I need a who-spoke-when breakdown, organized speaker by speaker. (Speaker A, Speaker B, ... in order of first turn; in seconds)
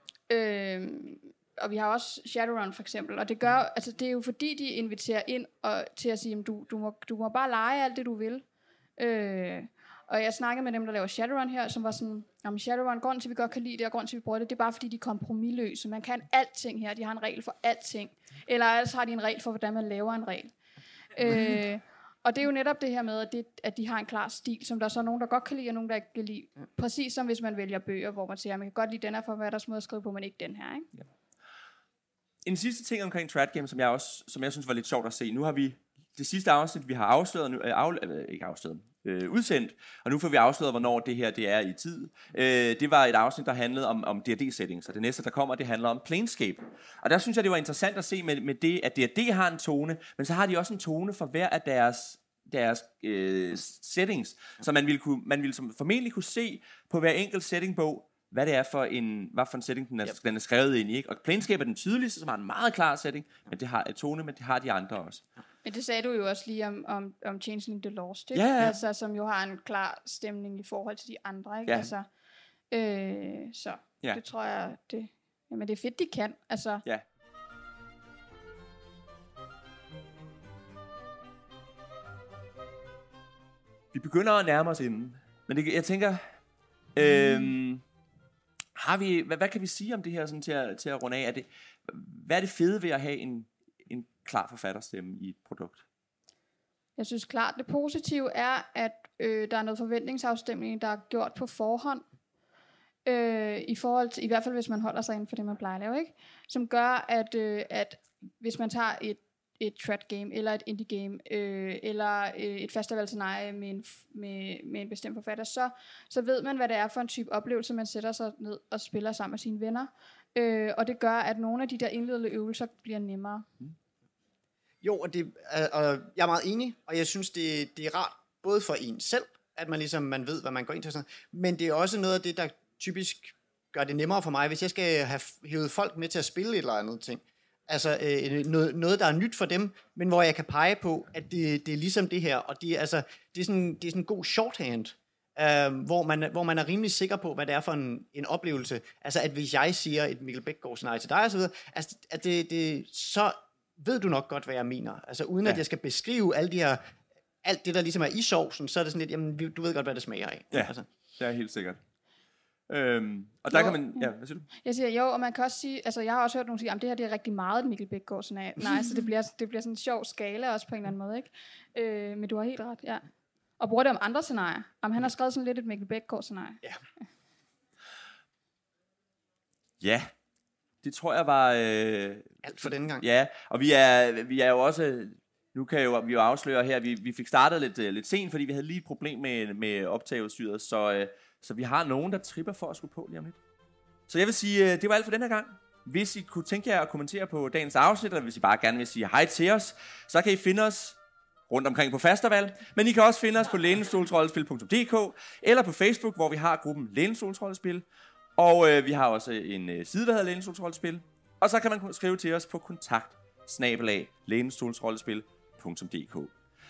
Speaker A: 0.3-8.4, 9.0-20.5, 21.1-30.9, 65.6-72.1, 72.7-76.8, 97.0-102.0, 103.0-123.5, 163.5-164.1, 164.6-173.1, 173.6-176.6
Speaker B: 32.4-65.2, 68.3-68.8, 83.9-86.2, 86.9-87.8, 88.8-95.8, 160.5-161.8, 162.7-164.5, 179.8-180.1, 180.8-182.4, 183.0-193.4, 194.1-201.0, 201.5-207.8, 208.4-216.3
Speaker C: 124.8-156.8, 157.4-160.9, 182.4-183.0